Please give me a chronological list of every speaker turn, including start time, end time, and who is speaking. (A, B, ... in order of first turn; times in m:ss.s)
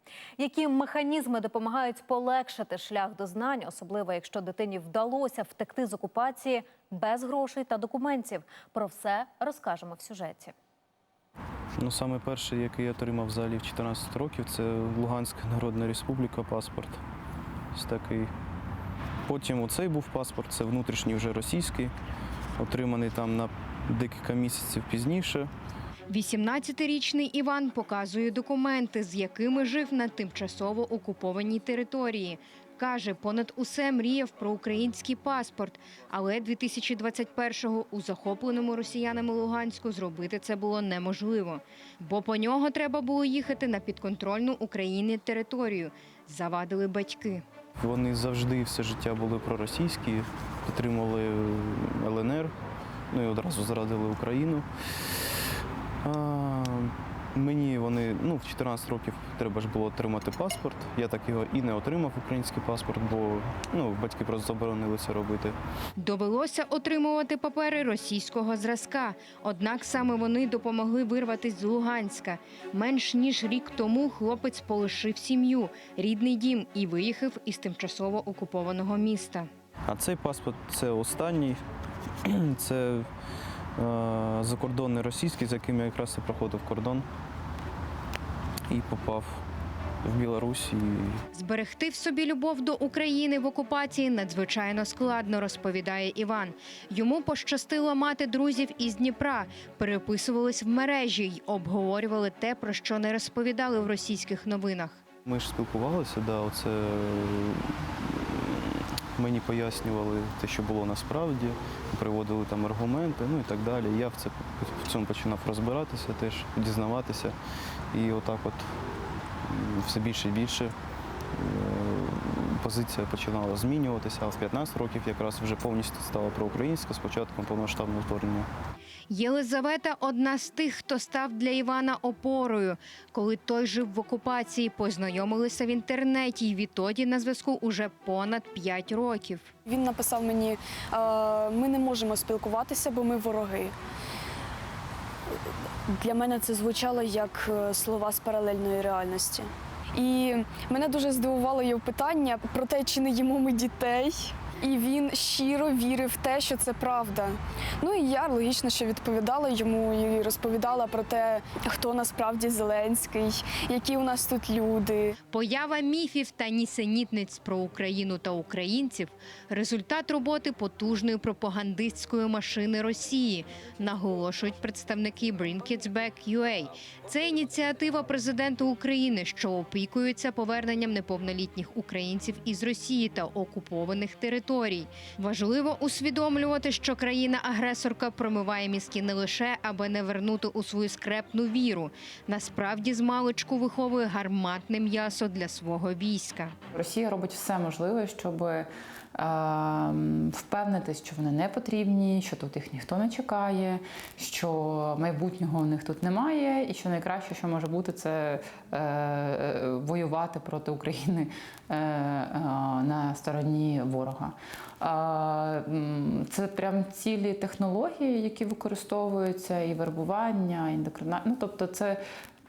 0:00.4-0:10.5 A
0:11.8-0:17.0 B
0:17.7-0:18.3 B
0:19.3-0:21.9 B
0:22.6-0:25.5 B
0:26.1-0:47.4 C
0:47.8-0:52.5 B
0:53.1-0:55.3 B
0:56.0-1:05.6 B
1:06.0-1:19.5 C
1:19.9-1:21.6 B
1:22.2-1:23.1 B
1:23.8-1:27.1 B
1:28.7-1:29.4 B
1:30.0-1:31.2 B
1:31.3-1:45.0 C
1:45.3-1:57.4 B
1:57.9-1:58.8 B
1:59.4-2:00.8 B
2:01.3-2:08.5 B
2:09.1-2:19.5 C
2:19.7-2:23.8 D
2:25.9-2:45.1 D
2:45.3-3:16.6 C
3:16.7-3:42.0 E